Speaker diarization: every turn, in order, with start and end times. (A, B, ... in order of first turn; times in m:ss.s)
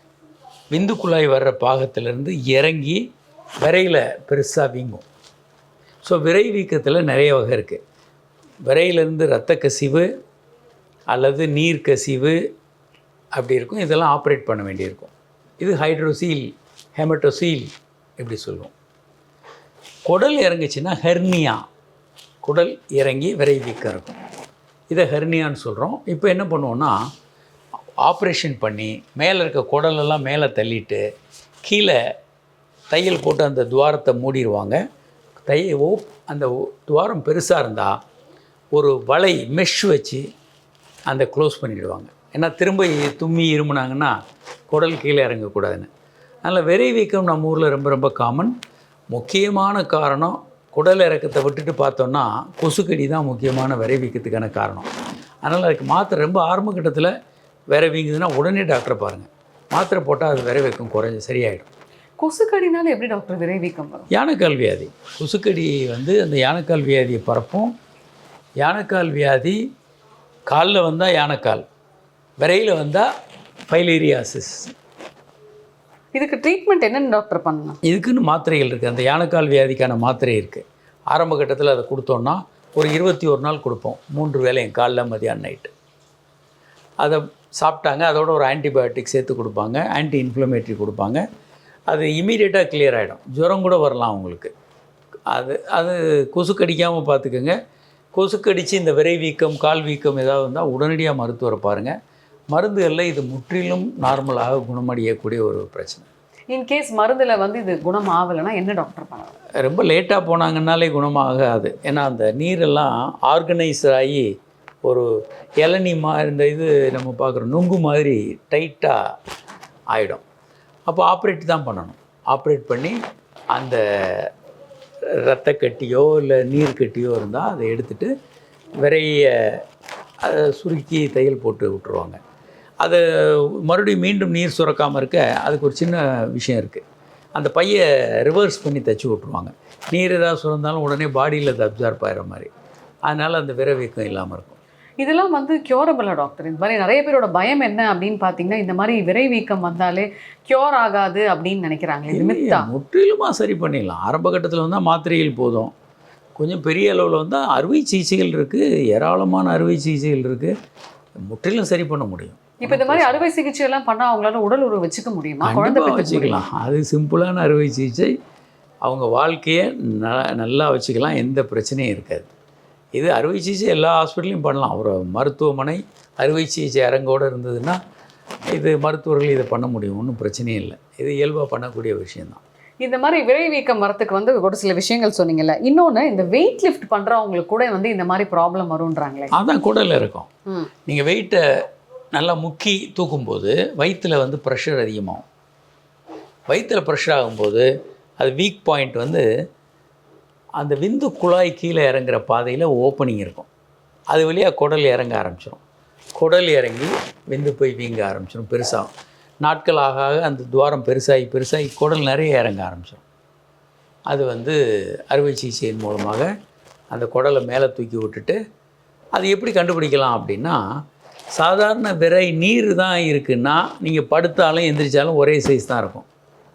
0:00.7-0:03.0 A
0:03.6-0:05.0 A
0:06.0-0:07.8 A
0:08.7-0:10.1 A
0:11.1-0:12.4 A
0:13.4-0:18.7 A
0:20.1-0:21.6 A
0:22.4-0:24.2 A
0:24.9-0:27.0 A
0:28.0-0:31.0 A
0:31.6-0:32.0 A
0:32.9-0:34.8 A
0:35.5-0:38.0 A
0:38.7-0:40.2 A
0:41.1-0:44.1 A
0:44.7-0:45.9 A
0:46.4-0:48.5 A
0:49.1-0:54.9 A
0:55.4-0:57.1 A
0:57.7-1:01.7 A
1:02.2-1:04.1 B
1:04.1-1:07.7 A
1:08.6-1:09.6 A
1:10.5-1:11.6 A
1:12.4-1:13.0 A
1:13.7-1:14.7 A
1:16.1-1:17.8 B
1:17.8-1:25.7 A
1:27.0-1:31.2 A
1:31.9-1:34.5 A
1:35.3-1:37.5 A
1:38.1-1:41.9 A
1:42.5-1:46.1 A
1:46.5-1:49.4 B
1:49.6-1:54.3 A
1:55.6-1:59.0 A
1:59.9-2:00.2 A
2:00.9-2:03.0 A
2:03.5-2:04.3 A
2:05.2-2:08.1 A
2:08.8-2:09.6 A
2:10.2-2:12.2 A
2:12.8-2:16.8 A
2:17.4-2:22.5 A
2:23.1-2:24.6 A
2:25.0-2:32.7 B
2:32.1-2:35.7 A
2:36.4-2:40.5 A
2:41.2-2:43.2 A
2:42.6-2:46.4 B
2:45.4-2:48.1 A
2:48.8-2:52.3 A
2:53.0-2:57.8 A
2:58.5-3:02.4 A
3:02.8-3:09.3 B
3:09.3-3:10.3 A
3:10.9-3:11.4 A
3:12.1-3:15.2 A
3:16.5-3:17.7 A
3:18.2-3:19.2 A
3:20.6-3:23.5 A
3:24.1-3:25.6 A
3:26.2-3:28.9 A
3:29.4-3:33.0 A
3:34.1-3:34.6 A
3:35.1-3:36.3 A
3:36.9-3:38.4 A
3:39.1-3:40.6 A
3:41.4-3:46.1 A